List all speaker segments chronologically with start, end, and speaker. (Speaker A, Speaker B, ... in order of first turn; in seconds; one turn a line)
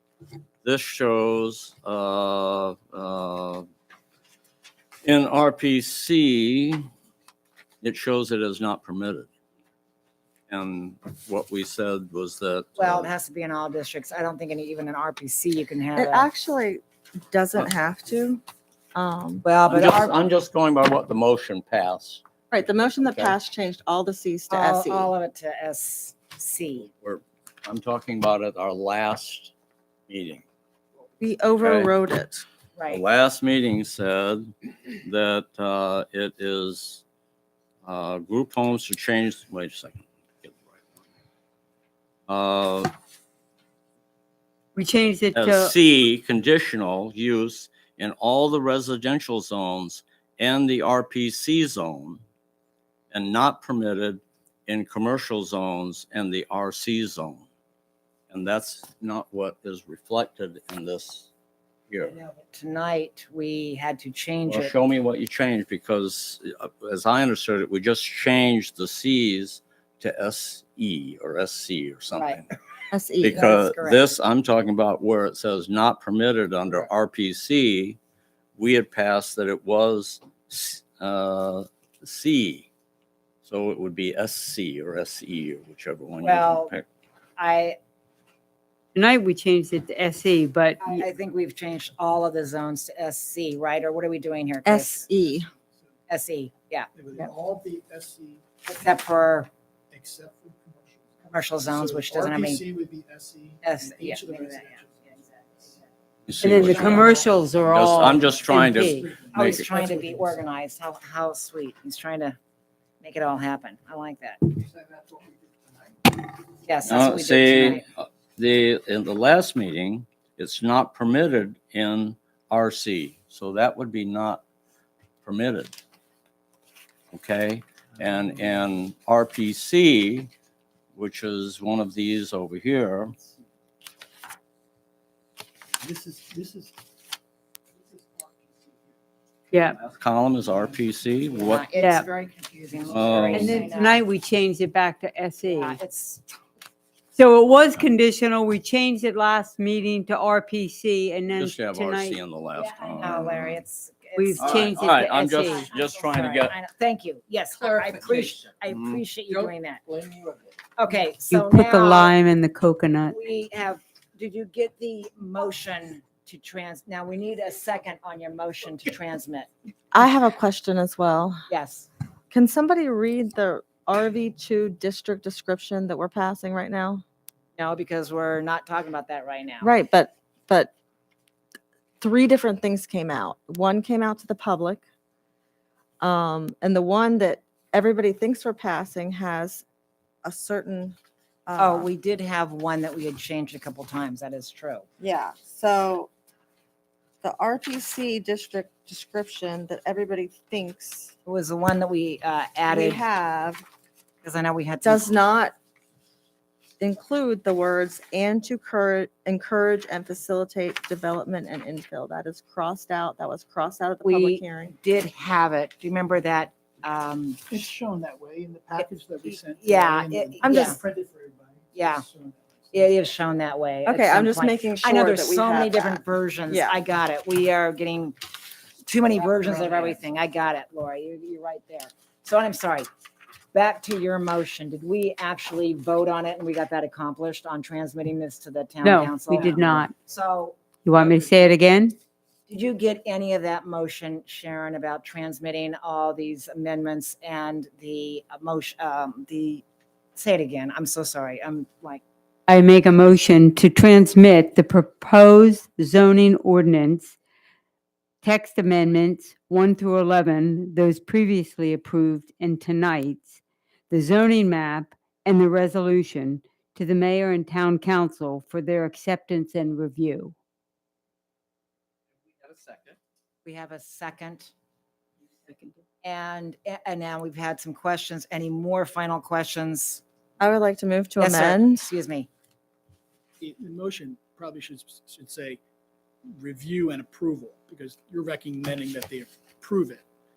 Speaker A: 0.6-3.6
Speaker A: 5.0-6.8
Speaker A: 7.8-9.3
Speaker A: 10.5-13.1
Speaker B: 12.8-16.3
Speaker C: 15.9-18.4
Speaker C: 18.9-19.4
Speaker B: 19.4-20.2
Speaker A: 19.7-22.2
Speaker C: 22.5-25.1
Speaker A: 23.1-23.3
Speaker B: 24.5-26.9
Speaker A: 27.0-29.5
Speaker A: 30.1-30.4
Speaker C: 31.2-32.4
Speaker A: 31.6-31.9
Speaker B: 32.8-33.0
Speaker A: 32.9-37.0
Speaker A: 37.8-40.8
Speaker A: 42.3-42.9
Speaker D: 44.7-45.7
Speaker A: 45.3-52.2
Speaker A: 53.1-57.4
Speaker A: 58.3-61.3
Speaker A: 61.9-62.1
Speaker B: 62.0-64.7
Speaker A: 64.5-72.4
Speaker B: 72.1-72.4
Speaker C: 72.9-73.4
Speaker A: 73.2-78.0
Speaker B: 73.3-74.0
Speaker A: 78.5-82.7
Speaker A: 83.4-86.8
Speaker B: 86.2-86.7
Speaker B: 87.4-87.8
Speaker D: 88.9-91.0
Speaker B: 90.8-95.0
Speaker C: 94.6-95.5
Speaker E: 95.2-95.9
Speaker B: 96.1-96.9
Speaker E: 96.9-98.4
Speaker B: 98.6-99.5
Speaker E: 99.9-105.7
Speaker B: 101.3-102.6
Speaker B: 103.6-105.2
Speaker A: 106.2-107.1
Speaker D: 106.4-109.1
Speaker E: 106.6-107.3
Speaker A: 107.7-109.7
Speaker E: 108.9-110.3
Speaker B: 109.3-112.4
Speaker B: 113.0-114.4
Speaker E: 114.9-115.3
Speaker B: 116.6-117.8
Speaker A: 116.8-124.4
Speaker A: 125.2-125.8
Speaker A: 127.1-130.3
Speaker A: 130.9-133.2
Speaker E: 135.8-136.7
Speaker E: 137.8-138.9
Speaker D: 139.5-139.8
Speaker A: 139.8-141.7
Speaker B: 141.3-144.0
Speaker D: 141.7-142.1
Speaker A: 142.8-143.6
Speaker D: 143.3-145.8
Speaker B: 145.5-146.2
Speaker D: 147.1-152.2
Speaker A: 151.3-153.6
Speaker B: 153.0-159.8
Speaker D: 154.1-155.6
Speaker A: 154.4-156.5
Speaker B: 160.8-162.2
Speaker D: 161.3-163.1
Speaker B: 163.1-169.5
Speaker C: 169.9-171.4
Speaker B: 171.5-171.9
Speaker C: 172.3-177.0
Speaker B: 177.6-179.7
Speaker C: 179.6-180.7
Speaker C: 182.0-184.8
Speaker C: 186.0-189.6
Speaker C: 190.2-191.9
Speaker B: 191.6-194.8
Speaker C: 195.0-196.1
Speaker C: 197.2-201.1
Speaker B: 201.2-203.0
Speaker C: 202.7-203.6
Speaker B: 204.2-205.1
Speaker C: 204.8-205.5
Speaker C: 206.8-214.7
Speaker B: 214.0-217.4
Speaker E: 217.5-223.0
Speaker B: 218.8-220.8
Speaker C: 220.4-220.8
Speaker B: 221.7-222.0
Speaker B: 222.7-228.2
Speaker C: 223.8-226.8
Speaker B: 228.8-232.9
Speaker B: 233.5-241.3
Speaker D: 238.8-239.9
Speaker D: 240.8-241.9
Speaker B: 242.5-252.0
Speaker D: 252.5-257.1
Speaker D: 258.2-270.3
Speaker B: 273.4-274.5
Speaker D: 275.5-275.8
Speaker B: 276.0-280.0
Speaker C: 280.4-281.8
Speaker B: 281.2-282.3
Speaker E: 283.4-285.6
Speaker E: 286.4-290.0